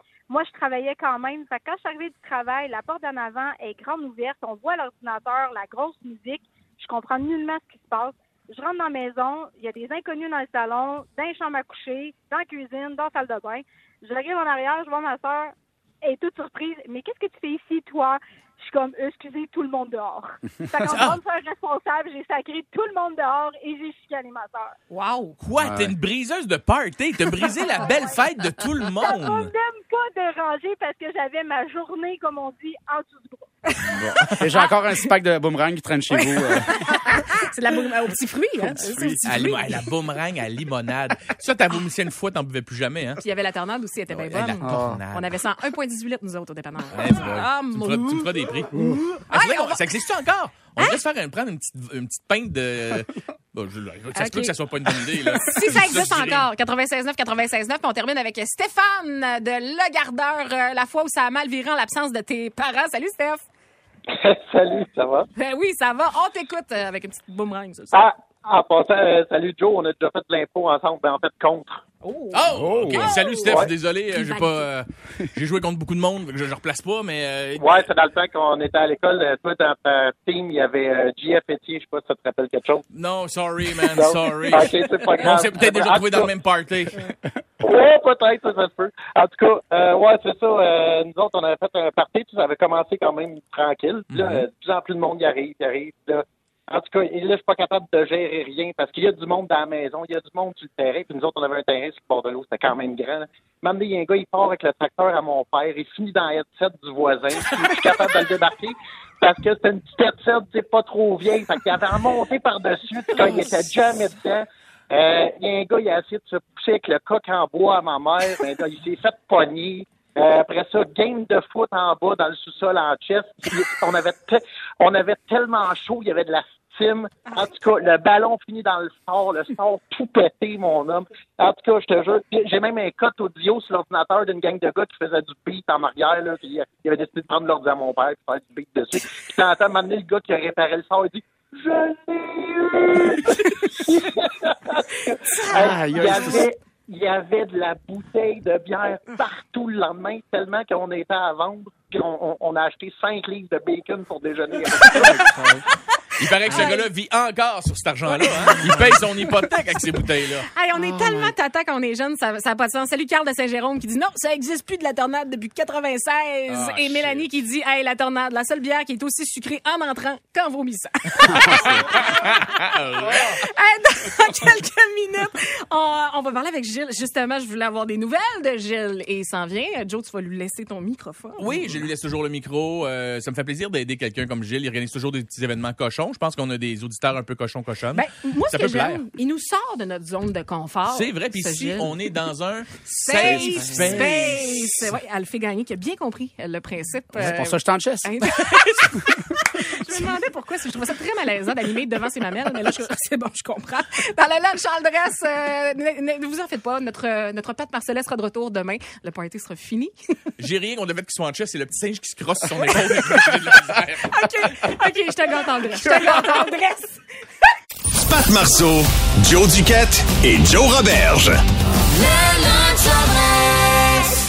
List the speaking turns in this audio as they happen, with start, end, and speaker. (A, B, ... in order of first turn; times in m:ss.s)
0:00.3-0:24.8 A
0:20.9-0:21.2 B
0:24.9-0:25.4 C
0:25.4-0:29.5 B
0:25.6-0:25.9 D
0:29.1-0:33.5 A
0:33.8-0:34.7 C
0:33.9-0:36.7 D
0:36.1-0:39.8 C
0:38.8-0:39.2 D
0:38.8-0:43.2 B
0:43.2-0:49.9 C
0:44.1-0:45.3 B
0:44.6-0:45.0 D
0:46.9-0:56.5 B
0:54.2-0:54.6 C
0:55.2-1:03.4 C
1:04.1-1:05.3 E
1:05.4-1:08.0 C
1:07.9-1:11.8 E
1:12.0-1:14.7 C
1:12.3-1:17.9 B
1:12.5-1:13.1 D
1:17.6-1:22.8 E
1:22.9-1:27.1 B
1:23.8-1:26.3 E
1:27.6-2:35.3 E
1:34.1-1:34.5 B
1:47.5-1:47.7 B
2:25.2-2:26.4 C
2:25.6-2:26.5 D
2:35.2-2:35.6 D
2:36.2-2:40.5 B
2:36.5-2:36.9 C
2:38.1-2:38.9 C
2:40.5-2:52.4 C
2:46.5-2:47.3 B
2:51.2-2:53.4 B
2:53.1-3:01.8 C
3:01.4-3:09.0 B
3:07.9-3:12.0 C
3:10.9-3:14.9 B
3:13.0-3:19.1 C
3:13.2-3:14.1 D
3:17.2-3:18.1 D
3:18.4-3:18.9 B
3:19.7-3:30.0 C
3:30.4-3:34.6 B
3:32.6-3:33.2 C
3:34.0-3:37.0 C
3:38.0-3:41.4 F